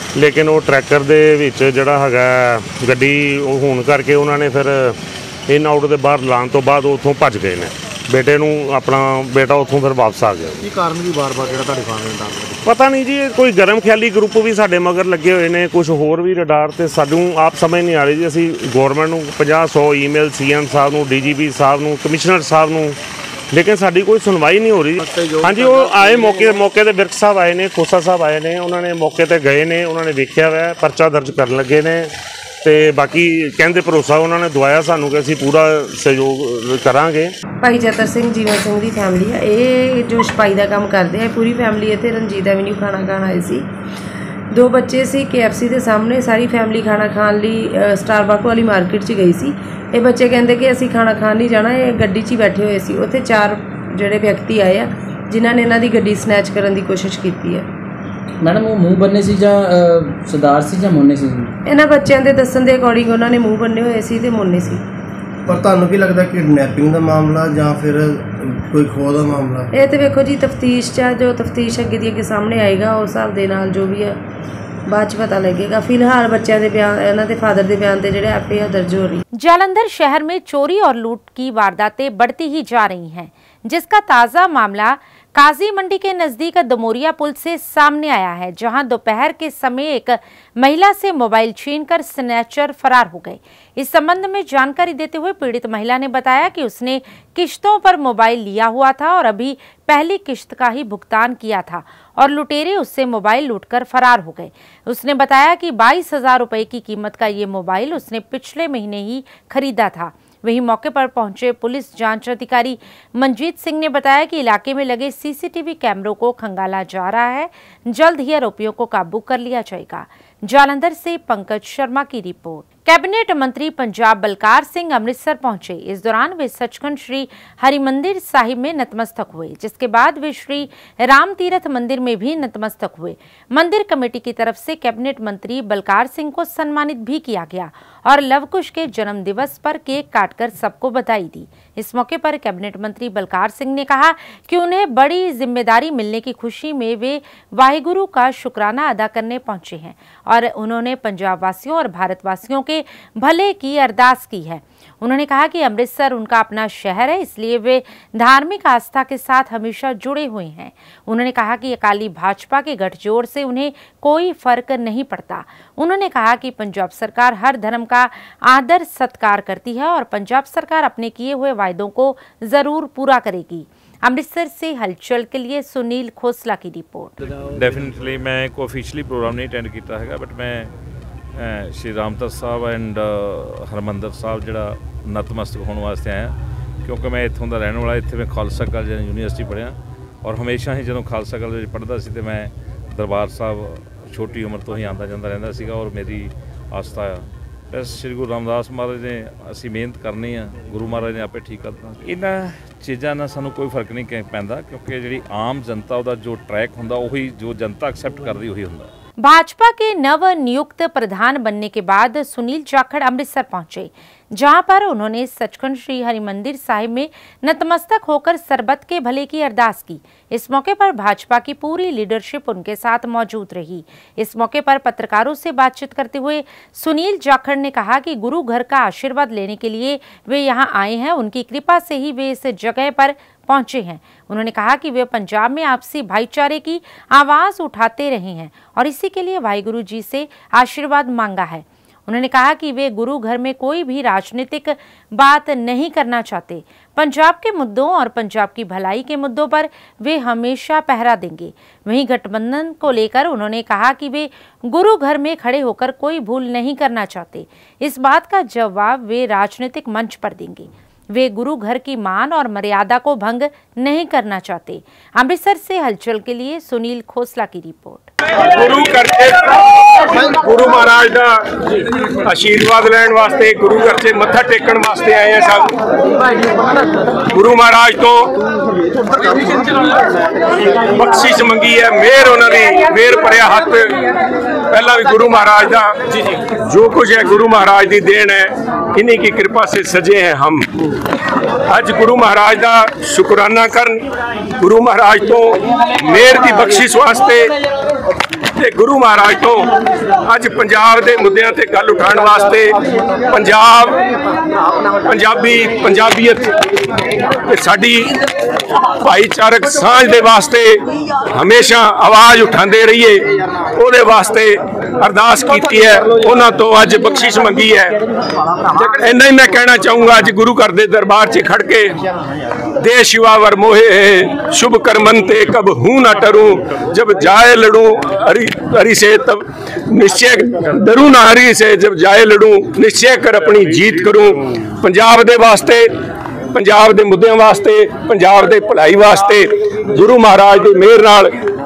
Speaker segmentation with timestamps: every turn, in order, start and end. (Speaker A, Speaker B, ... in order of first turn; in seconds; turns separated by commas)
Speaker A: 0.1-5.0, Speaker A: 5.5-10.6, Speaker B: 10.6-12.6, Speaker A: 12.6-23.0, Speaker A: 23.5-32.1, Speaker C: 25.2-26.6, Speaker A: 32.6-37.3, Speaker D: 37.6-43.6, Speaker D: 44.5-57.6, Speaker E: 58.4-61.4, Speaker D: 61.7-64.8, Speaker C: 65.5-69.7, Speaker D: 69.7-74.2, Speaker D: 74.9-79.2, Speaker F: 79.3-177.2, Speaker G: 177.5-180.7, Speaker G: 181.3-208.9, Speaker F: 209.2-268.1, Speaker H: 268.4-271.6, Speaker H: 272.2-275.8, Speaker H: 277.3-278.3, Speaker H: 280.5-284.0, Speaker H: 284.7-290.7, Speaker H: 291.7-294.0, Speaker H: 294.6-297.5, Speaker H: 298.6-299.7, Speaker H: 300.2-304.0, Speaker H: 305.0-306.5, Speaker H: 307.4-308.1, Speaker H: 308.9-318.0, Speaker H: 318.8-322.0, Speaker H: 322.8-335.9, Speaker H: 336.5-341.4